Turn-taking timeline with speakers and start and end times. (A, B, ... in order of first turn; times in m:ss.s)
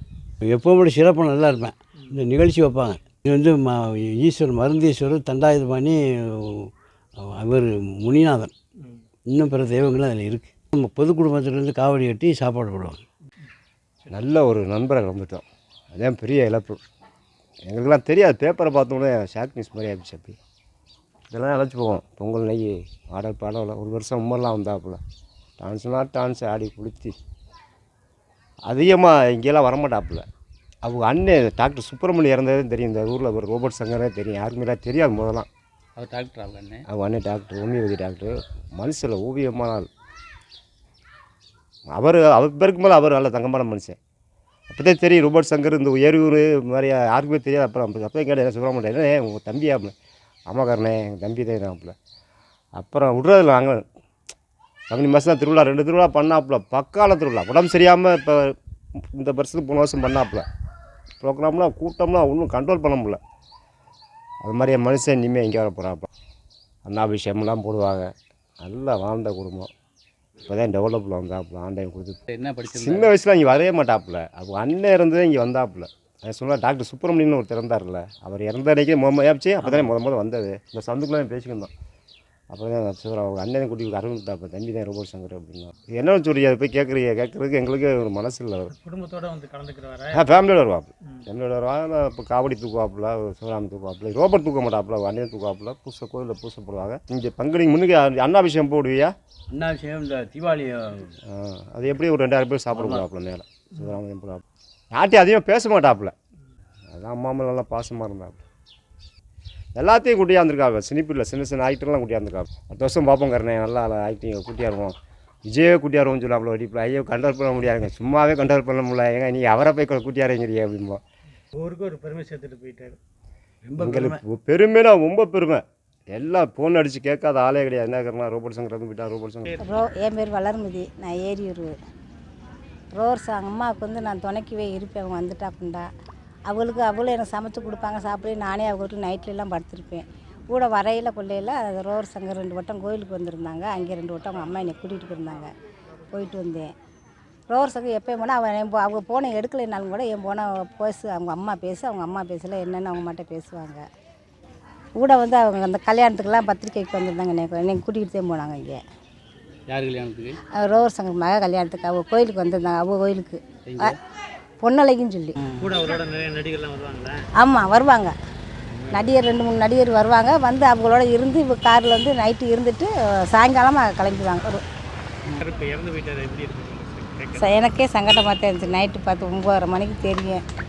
0:00.4-0:08.5 A
0:09.3-0:13.0 A
0:14.1-0:16.8 B
0:17.7-0:20.4 B
0:21.3-0:25.0 B
0:25.6-0:27.2 B
0:28.7-0:30.2 B
0:30.8-0:35.5 B
0:36.0-0:36.8 C
0:36.9-0:39.9 B
0:41.9-0:44.0 B
0:44.7-0:49.9 B
0:50.5-0:51.9 B
0:52.8-0:53.8 B
0:54.9-0:58.6 B
0:59.1-1:00.4 B
1:01.2-1:03.2 B
1:04.4-1:06.1 B
1:06.8-1:09.7 B
1:10.4-1:21.7 B
1:12.3-1:13.1 C
1:22.5-1:28.7 B
1:28.8-1:30.2 D
1:30.1-1:39.1 B
1:39.5-1:41.1 A
1:41.3-1:46.1 B
1:42.7-1:43.1 A
1:46.9-1:48.4 B
1:49.8-2:01.0 B
2:01.6-2:03.0 D
2:03.6-2:04.2 A
2:03.8-2:09.6 B
2:09.6-2:11.7 E
2:13.0-2:15.9 E
2:16.5-2:25.5 E
2:26.1-2:26.7 E
2:27.5-2:33.8 E
2:35.0-2:38.8 E
2:39.7-2:40.4 C
2:40.6-2:44.0 E
2:43.7-2:44.0 C
2:44.6-2:45.5 E
2:45.6-2:47.2 D
2:47.4-2:48.1 E
2:48.9-2:54.6 E
2:55.4-2:57.6 D
2:57.4-3:00.4 E